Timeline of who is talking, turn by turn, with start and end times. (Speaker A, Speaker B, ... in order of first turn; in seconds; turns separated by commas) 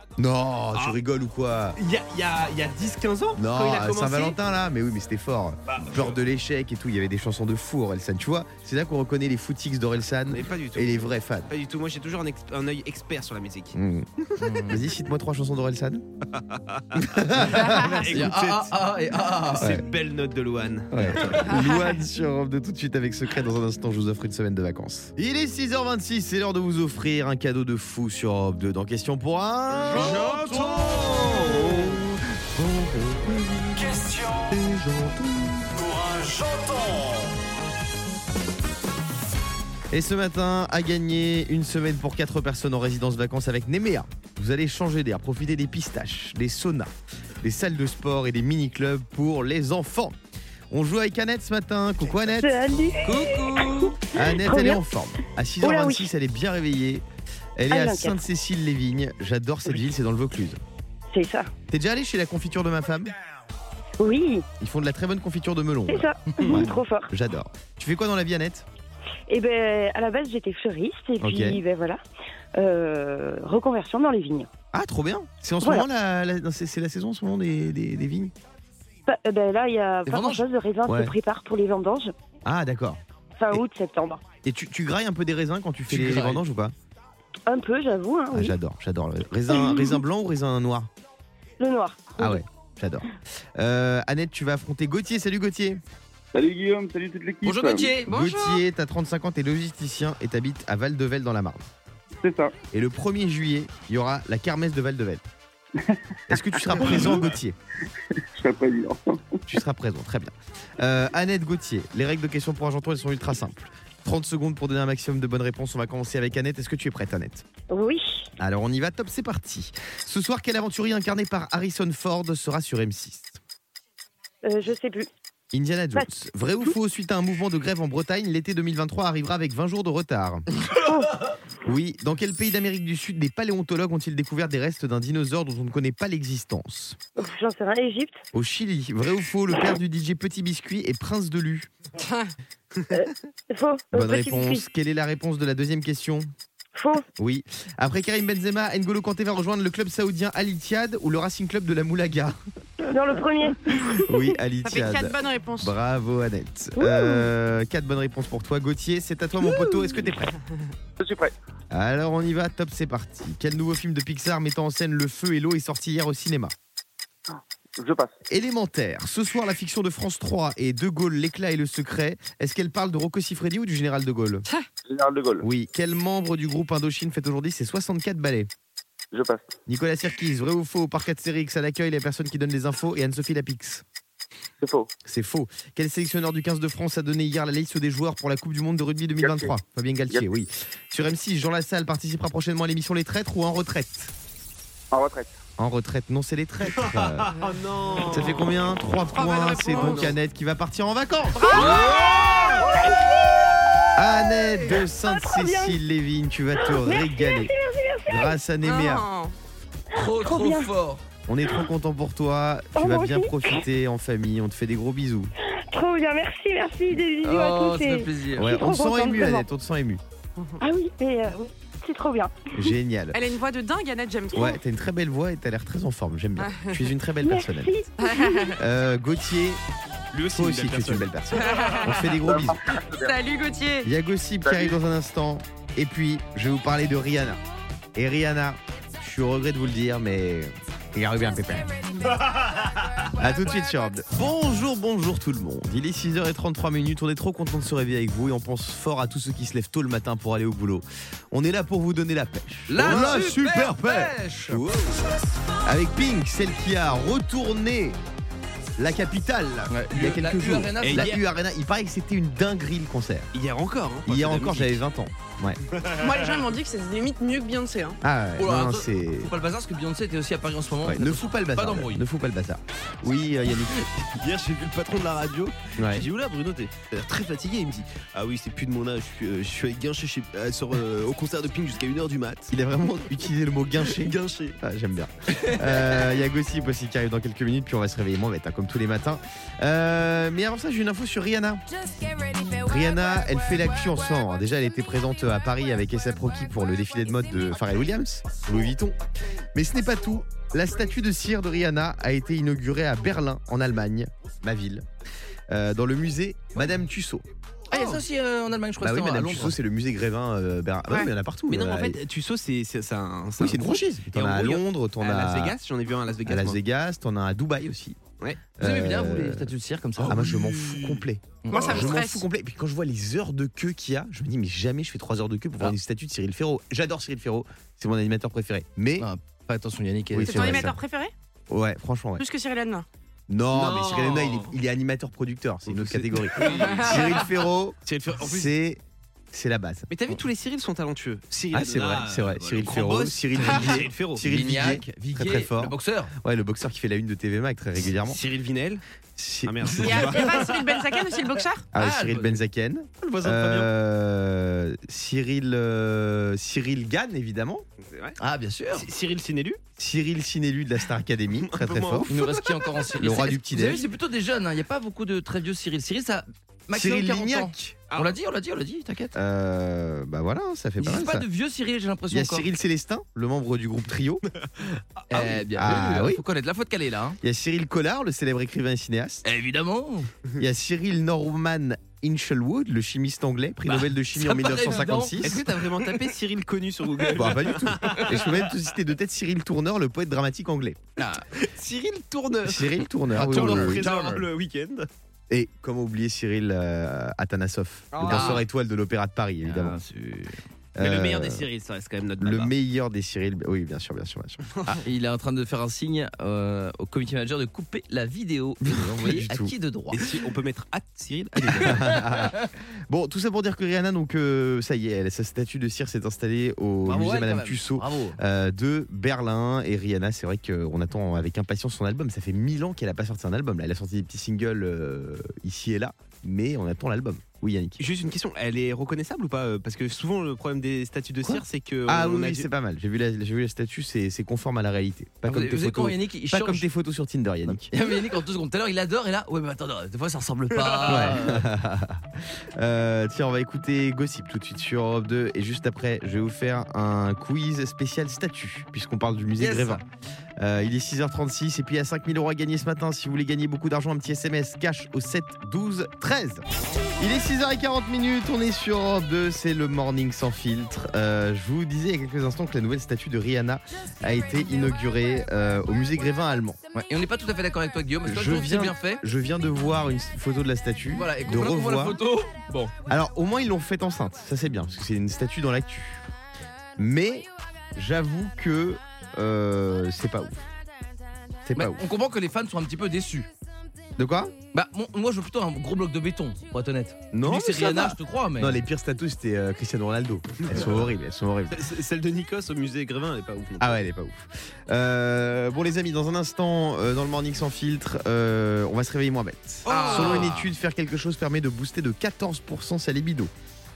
Speaker A: 0.2-1.8, Speaker B: 1.8-4.3, Speaker A: 3.3-11.5, Speaker B: 5.8-6.1, Speaker B: 10.3-13.8, Speaker A: 13.8-16.0, Speaker C: 14.4-14.8, Speaker B: 16.3-18.8, Speaker A: 16.9-18.1, Speaker C: 18.1-19.8, Speaker B: 19.4-21.5, Speaker A: 19.6-19.8, Speaker A: 20.9-35.7, Speaker B: 29.9-31.9, Speaker D: 33.9-34.5, Speaker D: 35.8-37.2, Speaker A: 39.9-50.1, Speaker A: 50.7-52.5, Speaker E: 52.3-54.8, Speaker C: 53.0-54.0, Speaker A: 54.1-57.0, Speaker E: 55.6-56.1, Speaker A: 57.6-60.6, Speaker E: 57.7-58.2, Speaker E: 61.1-61.5, Speaker A: 61.7-63.1, Speaker E: 64.0-64.5, Speaker A: 64.6-68.7, Speaker E: 65.9-67.1, Speaker E: 69.3-72.0, Speaker A: 71.2-71.6, Speaker E: 72.5-74.5, Speaker A: 74.7-78.3, Speaker E: 75.6-75.8, Speaker E: 79.1-82.1, Speaker C: 80.0-80.4, Speaker A: 80.8-81.1, Speaker A: 82.4-83.6, Speaker E: 83.4-84.2, Speaker A: 84.4-86.8, Speaker C: 85.9-86.4, Speaker E: 87.5-88.5, Speaker A: 88.3-90.9, Speaker E: 89.5-90.0, Speaker E: 91.6-92.4, Speaker A: 92.2-95.8, Speaker F: 96.3-98.0, Speaker C: 97.4-98.1, Speaker G: 98.1-98.6, Speaker A: 98.1-101.7, Speaker F: 102.2-102.5, Speaker A: 102.7-105.2, Speaker A: 106.3-107.5, Speaker F: 108.3-109.4, Speaker A: 109.5-117.4, Speaker E: 117.7-118.3, Speaker A: 118.4-123.4, Speaker E: 124.4-125.1, Speaker A: 125.5-130.4, Speaker E: 130.7-131.2, Speaker A: 131.6-137.0, Speaker E: 137.2-138.2, Speaker A: 138.3-141.7, Speaker G: 142.0-142.3, Speaker E: 142.9-144.6, Speaker A: 143.9-146.3, Speaker E: 146.8-147.1, Speaker A: 147.2-152.4, Speaker E: 152.9-154.2, Speaker A: 154.0-160.3, Speaker G: 154.6-155.7, Speaker E: 156.8-157.3, Speaker F: 161.0-161.3, Speaker A: 161.7-166.5, Speaker F: 167.8-168.1, Speaker A: 168.3-174.5, Speaker F: 174.8-175.4, Speaker A: 175.4-178.5, Speaker F: 179.1-179.5, Speaker A: 179.7-183.8, Speaker F: 184.6-184.9, Speaker A: 185.0-194.1, Speaker F: 189.2-189.5, Speaker F: 194.9-195.3, Speaker A: 195.6-197.4, Speaker B: 196.8-198.5, Speaker A: 198.1-201.8, Speaker G: 199.1-200.1, Speaker B: 199.8-200.1, Speaker G: 201.4-202.6, Speaker E: 201.6-205.8, Speaker B: 201.8-202.5, Speaker A: 203.9-207.5, Speaker E: 206.6-208.4, Speaker A: 208.1-209.1, Speaker G: 208.6-209.3, Speaker C: 209.9-211.0, Speaker E: 209.9-210.7, Speaker A: 211.3-215.3, Speaker E: 212.8-213.6, Speaker E: 215.4-219.5, Speaker C: 217.2-218.5, Speaker A: 218.3-220.0, Speaker E: 220.6-222.7, Speaker A: 222.5-223.2, Speaker G: 223.1-224.6, Speaker A: 224.3-227.7, Speaker G: 226.4-226.8, Speaker E: 227.2-228.6, Speaker G: 228.0-228.6, Speaker A: 228.6-229.6, Speaker B: 230.1-231.6, Speaker A: 230.3-232.6, Speaker G: 231.3-232.2, Speaker F: 232.2-233.1, Speaker G: 232.8-233.9, Speaker A: 233.8-237.4, Speaker F: 234.4-234.7, Speaker A: 237.9-242.1, Speaker A: 243.1-255.1, Speaker C: 252.7-254.6, Speaker A: 255.6-258.0, Speaker A: 258.8-263.3, Speaker C: 259.7-261.2, Speaker B: 260.8-261.2, Speaker B: 263.3-264.8, Speaker A: 264.0-265.6, Speaker B: 265.7-266.2, Speaker G: 265.9-268.0, Speaker A: 268.0-269.3, Speaker C: 268.4-272.0, Speaker A: 270.8-273.9, Speaker B: 274.1-282.5, Speaker A: 275.8-276.1, Speaker A: 282.5-291.6, Speaker B: 283.8-284.6, Speaker C: 285.3-285.9, Speaker A: 292.5-299.0, Speaker A: 299.5-304.9, Speaker A: 305.5-307.2, Speaker C: 307.7-309.6, Speaker B: 307.7-308.0, Speaker A: 308.8-312.0, Speaker B: 311.5-316.6, Speaker A: 313.4-315.6, Speaker A: 316.2-318.0, Speaker A: 318.6-319.5, Speaker C: 318.6-320.2, Speaker B: 320.0-321.0, Speaker A: 320.1-329.1, Speaker C: 321.4-321.7, Speaker G: 321.5-322.2, Speaker C: 329.0-330.7, Speaker A: 330.1-330.8, Speaker G: 330.3-331.1, Speaker A: 331.5-332.2, Speaker G: 332.2-332.9, Speaker A: 333.3-339.9, Speaker B: 333.5-334.5, Speaker B: 335.7-337.3, Speaker G: 336.5-337.1, Speaker B: 337.8-338.5, Speaker B: 339.9-344.2, Speaker A: 341.5-348.2, Speaker C: 344.2-346.1, Speaker B: 347.9-348.8, Speaker A: 349.2-350.3, Speaker B: 349.4-350.9, Speaker G: 349.8-351.6, Speaker A: 351.7-357.6, Speaker C: 351.8-352.4, Speaker B: 353.0-353.7, Speaker B: 357.8-358.2, Speaker C: 358.2-358.9, Speaker B: 358.7-359.6, Speaker A: 359.8-362.1, Speaker B: 361.4-362.8, Speaker C: 362.1-369.1, Speaker A: 363.0-363.9, Speaker A: 366.7-367.8, Speaker B: 367.9-368.1, Speaker A: 369.1-371.2, Speaker C: 370.8-372.5, Speaker A: 372.1-374.2, Speaker C: 375.1-377.2, Speaker A: 375.1-376.2, Speaker A: 377.2-379.2, Speaker C: 379.2-380.1, Speaker A: 380.4-385.4, Speaker C: 383.7-386.1, Speaker B: 385.2-388.5, Speaker A: 387.1-390.8, Speaker C: 391.0-391.3, Speaker B: 391.3-394.9, Speaker A: 392.4-393.9, Speaker C: 393.1-394.2, Speaker A: 395.3-399.8, Speaker B: 397.9-398.4, Speaker C: 398.0-398.4, Speaker C: 399.4-400.4, Speaker A: 400.8-401.5, Speaker B: 400.8-402.5, Speaker A: 402.2-404.8, Speaker C: 404.8-410.0, Speaker A: 408.6-409.5, Speaker B: 409.9-411.9, Speaker A: 411.4-427.8, Speaker C: 411.6-412.5, Speaker C: 416.8-418.2, Speaker B: 427.8-432.5, Speaker A: 431.2-437.7, Speaker C: 435.3-436.7, Speaker C: 437.5-441.5, Speaker B: 440.6-441.1, Speaker A: 440.9-449.8, Speaker C: 449.4-449.8, Speaker A: 450.4-456.4, Speaker A: 457.0-466.6, Speaker C: 466.7-469.0, Speaker A: 468.1-472.0, Speaker C: 470.9-472.7, Speaker A: 472.9-476.1, Speaker A: 476.8-480.4, Speaker A: 481.4-481.8, Speaker C: 481.5-483.3, Speaker A: 484.0-484.4, Speaker C: 484.5-488.6, Speaker A: 487.1-491.6, Speaker B: 490.4-490.8, Speaker B: 491.5-493.8, Speaker A: 493.6-503.3, Speaker C: 499.6-500.5, Speaker B: 499.7-500.3